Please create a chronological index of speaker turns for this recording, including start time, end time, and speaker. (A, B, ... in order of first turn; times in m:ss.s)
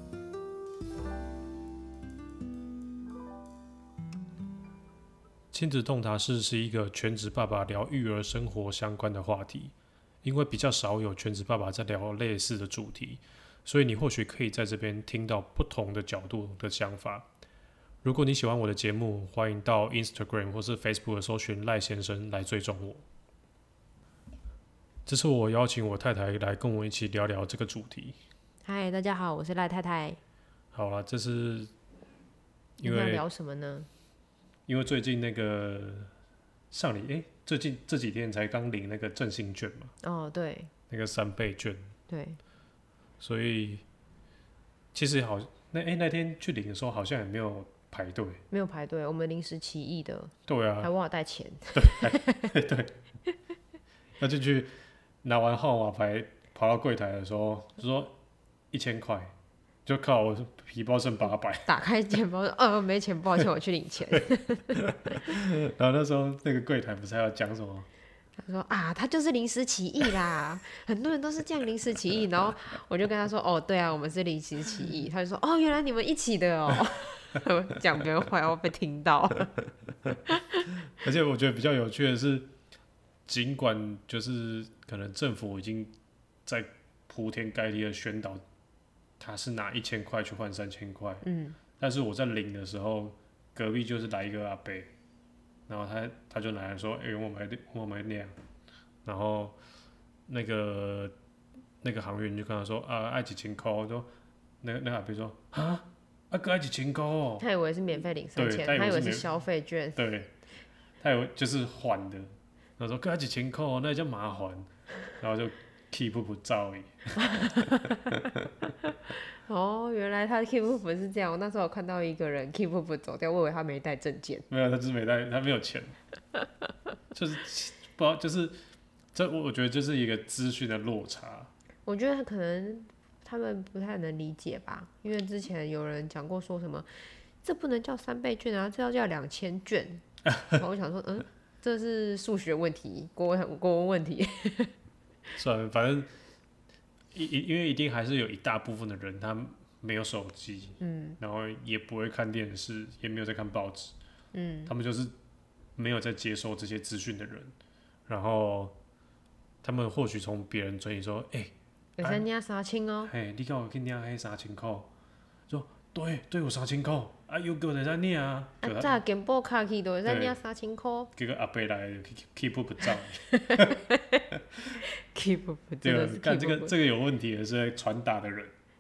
0:05.5-0:17.3 A
0:18.0-0:23.0 A
0:25.1-0:28.2 A
0:28.6-0:30.2 B
0:30.7-0:31.7 A
0:32.8-0:33.2 A
0:32.8-0:33.9 B
0:34.7-0:36.1 A
0:36.7-0:39.9 A
0:40.0-0:40.7 B
0:40.9-0:41.9 A
0:42.1-0:42.4 B
0:43.2-0:43.8 A
0:44.9-0:48.4 A
0:48.5-0:52.6 B
0:50.5-0:50.9 A
0:51.8-0:52.9 A
0:54.2-0:58.2 A
0:58.7-0:59.3 A
0:59.9-1:01.7 A
1:01.7-1:05.2 B
1:04.7-1:07.9 A
1:08.4-1:19.5 B
1:20.3-1:20.7 B
1:20.9-1:22.5 A
1:23.3-1:25.9 A
1:26.5-1:28.4 A
1:29.2-1:31.3 A
1:31.2-1:31.6 B
1:31.8-1:34.9 A
1:35.7-1:38.3 A
1:39.0-1:39.6 A
1:40.3-1:41.1 A
1:41.8-1:44.1 A
1:44.6-1:47.4 A
1:47.4-1:50.0 B
1:48.4-1:49.3 A
1:50.0-1:50.3 A
1:51.0-1:57.4 A
1:57.2-1:58.2 B
1:58.8-2:04.5 B
2:04.5-2:06.0 A
2:07.1-2:08.6 A
2:09.1-2:11.5 A
2:11.9-2:24.7 B
2:20.3-2:20.6 A
2:25.3-2:26.1 A
2:27.1-2:33.9 A
2:30.8-2:31.2 B
2:34.3-2:34.7 B
2:34.7-2:35.1 A
2:35.8-2:37.6 A
2:38.1-2:38.8 A
2:39.6-2:42.2 A
2:42.0-2:43.1 B
2:43.0-2:44.9 A
2:45.5-2:49.0 A
2:48.6-2:51.1 B
2:50.1-2:50.4 A
2:51.2-2:53.8 A
2:52.9-2:56.7 B
2:55.8-2:58.5 A